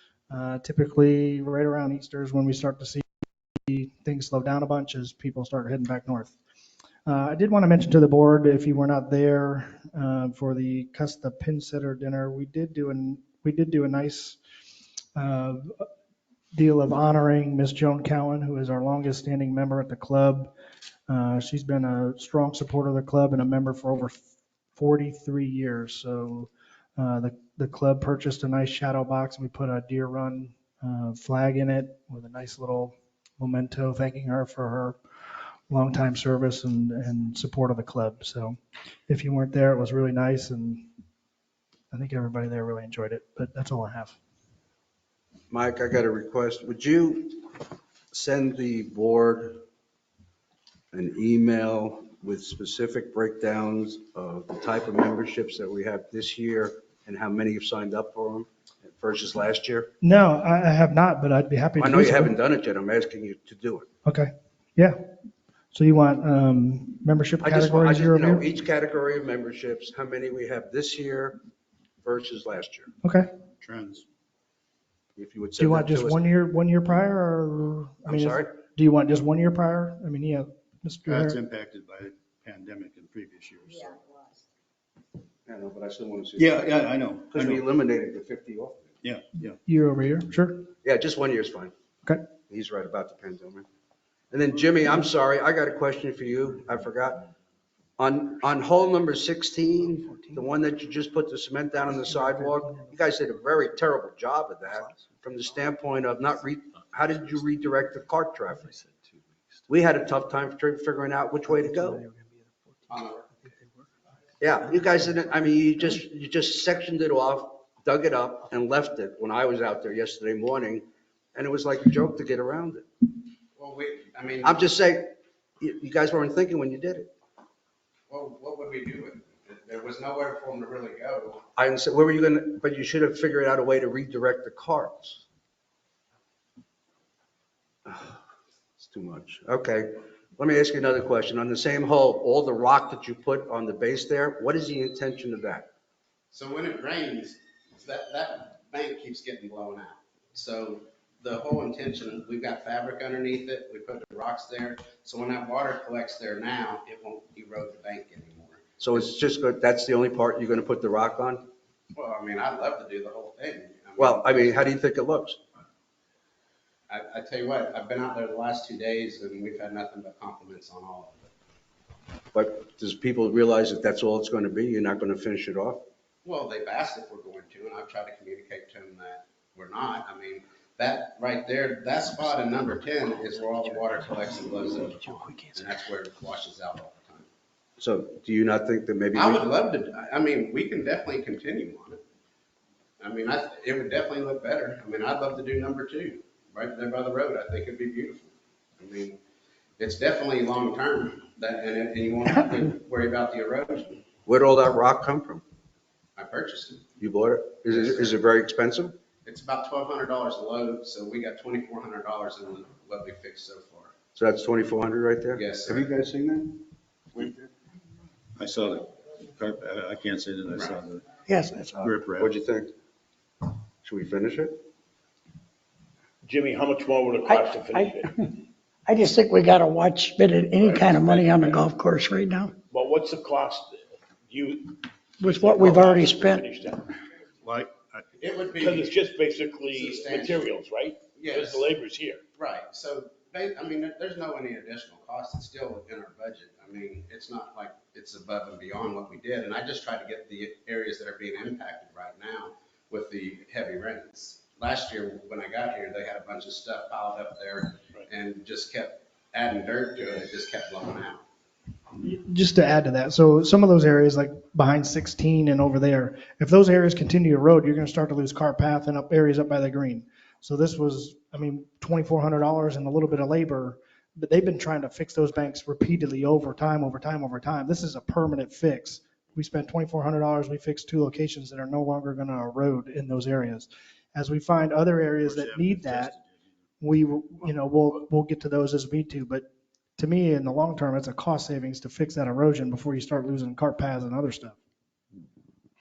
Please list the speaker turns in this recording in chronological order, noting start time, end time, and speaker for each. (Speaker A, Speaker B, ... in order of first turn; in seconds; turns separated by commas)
Speaker A: 0.3-3.1, Speaker A: 3.7-6.3, Speaker A: 7.0-14.4, Speaker A: 15.2-15.8, Speaker A: 16.5-20.5, Speaker A: 21.1-24.2, Speaker A: 24.7-35.0, Speaker A: 35.7-40.9, Speaker A: 41.9-44.2, Speaker B: 45.5-47.5, Speaker B: 48.1-49.6, Speaker B: 50.9-59.9, Speaker A: 60.0-62.3, Speaker B: 61.8-63.9, Speaker A: 64.1-65.1, Speaker A: 65.7-68.4, Speaker B: 67.4-71.4, Speaker B: 72.0-72.9, Speaker A: 73.0-73.3, Speaker C: 73.6-74.0, Speaker B: 75.2-76.2, Speaker A: 75.6-81.4, Speaker B: 78.1-78.5, Speaker C: 81.1-83.9, Speaker B: 85.5-86.7, Speaker C: 86.4-87.6, Speaker B: 87.3-88.9, Speaker C: 89.0-89.6, Speaker A: 89.7-90.7, Speaker B: 90.8-91.7, Speaker B: 92.5-93.7, Speaker B: 94.3-97.2, Speaker B: 98.0-108.7, Speaker B: 109.7-112.0, Speaker D: 112.9-113.3, Speaker B: 114.4-122.8, Speaker D: 123.6-124.6, Speaker B: 124.4-127.1, Speaker D: 128.1-131.4, Speaker B: 131.6-135.2, Speaker B: 137.8-138.2, Speaker B: 138.8-145.7, Speaker D: 146.3-159.0, Speaker B: 158.8-161.4, Speaker D: 161.9-164.7, Speaker B: 164.0-165.4, Speaker D: 166.9-171.3, Speaker B: 172.3-175.8, Speaker D: 176.2-187.3, Speaker B: 187.8-189.4, Speaker D: 189.1-192.0, Speaker D: 193.0-199.2, Speaker D: 199.8-204.0, Speaker B: 204.2-205.4, Speaker D: 206.2-206.8, Speaker B: 207.0-208.9, Speaker D: 207.7-208.2, Speaker D: 209.2-213.9, Speaker B: 214.1-217.5, Speaker D: 215.3-215.9, Speaker C: 218.3-221.1, Speaker D: 220.5-220.8, Speaker E: 221.2-221.9, Speaker C: 221.8-222.3, Speaker B: 221.8-222.7, Speaker B: 223.8-224.6, Speaker F: 226.2-228.2, Speaker E: 227.3-228.3, Speaker E: 228.9-232.6, Speaker F: 230.5-231.7, Speaker F: 232.7-236.9, Speaker E: 235.2-236.4, Speaker C: 237.4-238.1, Speaker D: 238.2-239.0, Speaker F: 238.6-242.2, Speaker D: 239.6-240.5, Speaker D: 241.2-241.7, Speaker D: 242.4-261.2, Speaker A: 262.0-286.1, Speaker C: 285.2-286.5, Speaker A: 286.8-289.5, Speaker A: 290.0-294.6